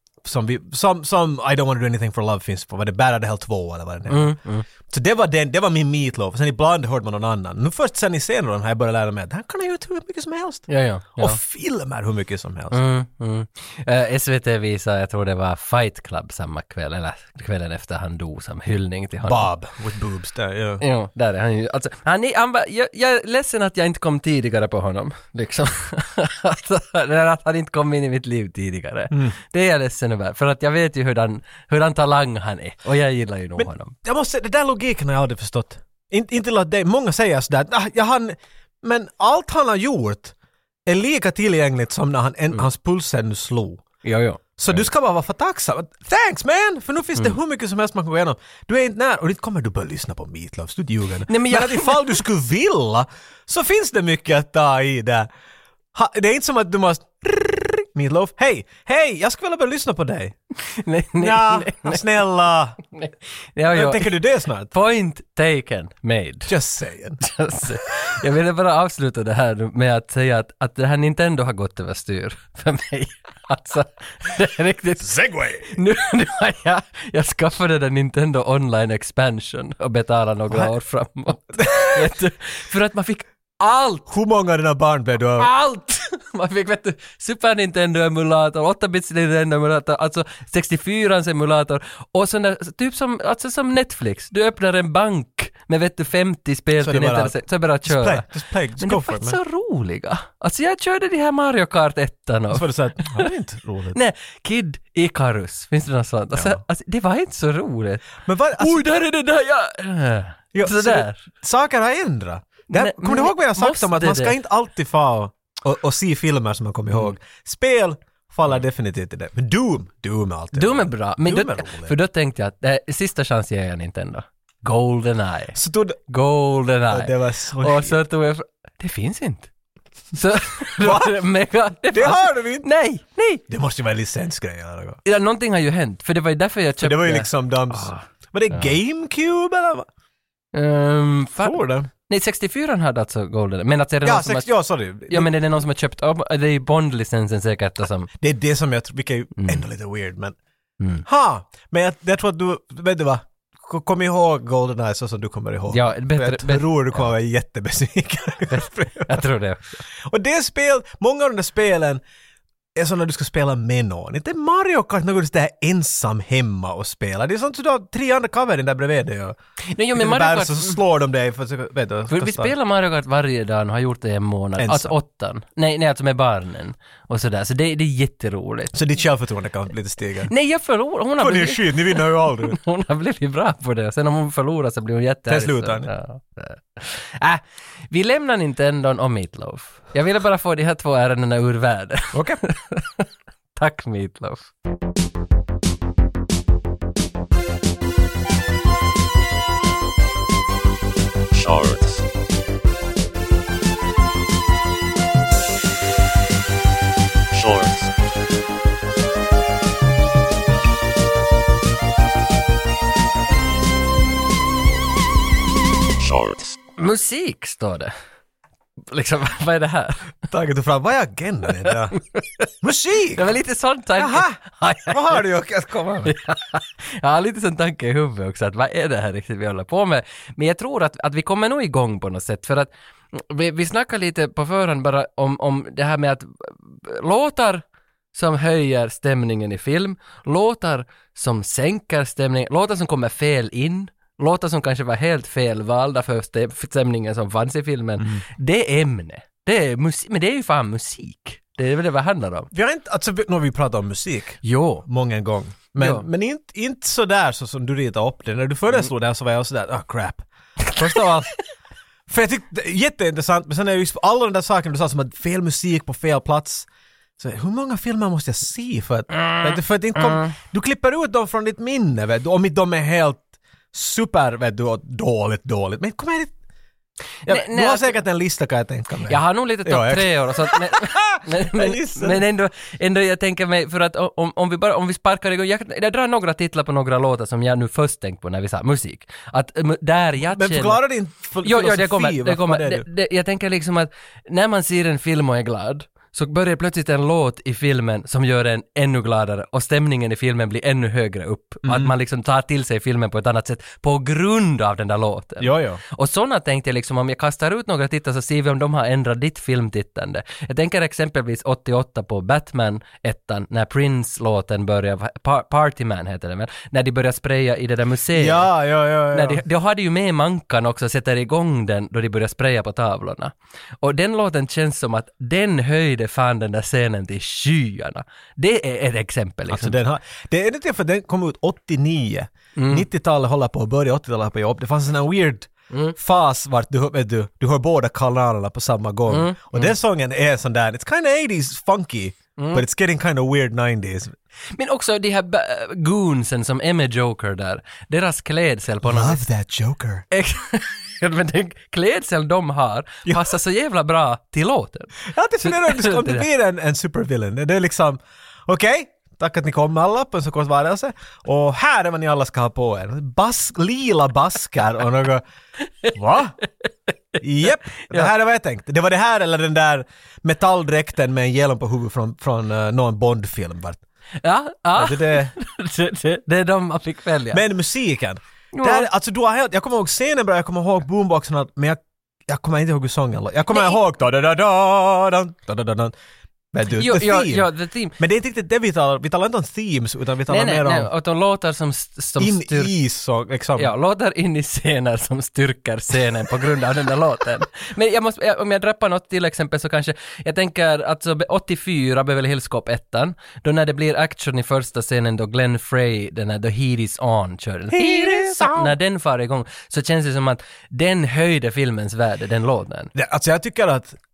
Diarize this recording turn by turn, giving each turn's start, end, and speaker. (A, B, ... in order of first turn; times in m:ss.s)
0:00.2-0:12.8 A
0:04.1-0:04.7 B
0:10.7-0:11.4 B
0:12.7-0:19.5 B
0:19.3-0:20.8 A
0:20.8-0:33.9 B
0:33.6-0:40.3 A
0:40.9-0:43.8 A
0:44.0-0:44.4 B
0:44.6-0:55.3 A
0:51.3-0:52.2 B
0:55.9-1:00.4 A
1:00.6-1:02.0 B
1:01.2-1:02.8 A
1:02.9-1:04.2 B
1:03.7-1:04.7 A
1:04.7-1:06.5 B
1:06.5-1:07.2 A
1:07.2-1:24.1 B
1:15.0-1:15.8 A
1:21.6-1:22.1 A
1:24.1-1:25.5 A
1:25.4-1:38.3 B
1:36.8-1:39.4 A
1:38.8-1:43.3 B
1:42.5-1:44.0 A
1:43.9-1:51.2 B
1:46.3-1:46.6 A
1:48.2-1:49.0 A
1:50.5-2:01.9 A
1:52.7-1:54.3 B
2:00.5-2:05.6 B
2:05.6-2:06.0 A
2:06.1-2:09.5 B
2:06.9-2:08.0 A
2:10.1-2:13.4 B
2:10.8-2:11.2 A
2:11.9-2:12.7 A
2:13.5-2:15.0 A
2:15.0-2:18.7 B
2:16.8-2:19.9 A
2:20.5-2:24.5 B
2:21.4-2:21.9 A
2:24.0-2:25.3 A
2:25.1-2:28.1 B
2:28.2-2:30.4 A
2:29.4-2:29.6 B
2:30.8-2:31.0 B
2:31.0-2:39.2 A
2:35.7-2:37.1 B
2:38.5-2:39.8 B
2:40.0-2:42.0 A
2:42.8-2:49.4 A
2:49.7-2:50.8 B
2:49.9-2:52.5 A
2:52.1-2:58.7 B
2:54.6-2:55.0 A
2:58.7-3:00.3 A
3:00.3-3:14.5 B
3:01.2-3:02.6 A
3:05.3-3:05.9 A
3:12.1-3:12.4 A
3:21.3-3:22.0 C
3:27.3-3:27.9 C
3:36.0-3:36.6 C
3:36.8-3:37.9 B
3:38.8-3:40.1 B
3:40.3-3:42.0 A
3:42.0-3:42.5 B
3:42.6-3:43.3 A
3:43.2-3:45.2 B
3:44.0-3:46.1 A
3:46.0-4:12.5 B
4:12.5-4:21.4 A
4:14.4-4:14.8 B
4:15.8-4:16.0 B
4:22.1-4:26.7 A
4:27.2-4:36.3 A
4:29.1-4:30.4 B
4:37.3-4:38.0 B
4:37.3-4:42.2 A
4:39.1-4:50.8 B
4:50.2-4:52.9 A
4:51.4-5:18.5 B
5:01.6-5:01.9 A
5:05.4-5:05.8 A
5:18.1-5:19.4 A
5:19.1-5:29.8 B
5:29.5-5:44.2 A
5:32.6-5:32.8 B
5:39.1-5:39.7 B
5:42.4-5:42.6 B
5:44.6-5:49.2 B
5:48.8-5:50.0 A
5:50.1-5:56.2 B
5:55.0-6:05.2 A
6:05.9-6:06.4 A
6:07.2-6:13.8 A
6:07.8-6:08.1 B
6:14.2-6:17.4 B
6:14.8-6:15.3 A
6:17.3-6:25.9 A
6:18.5-6:18.9 B
6:23.5-6:23.8 B
6:26.5-6:27.5 A
6:26.7-6:28.0 B
6:28.0-6:30.9 A
6:30.3-6:32.7 B
6:32.2-6:33.7 A
6:33.6-6:52.9 B
6:47.7-6:48.7 A
6:53.0-6:54.0 A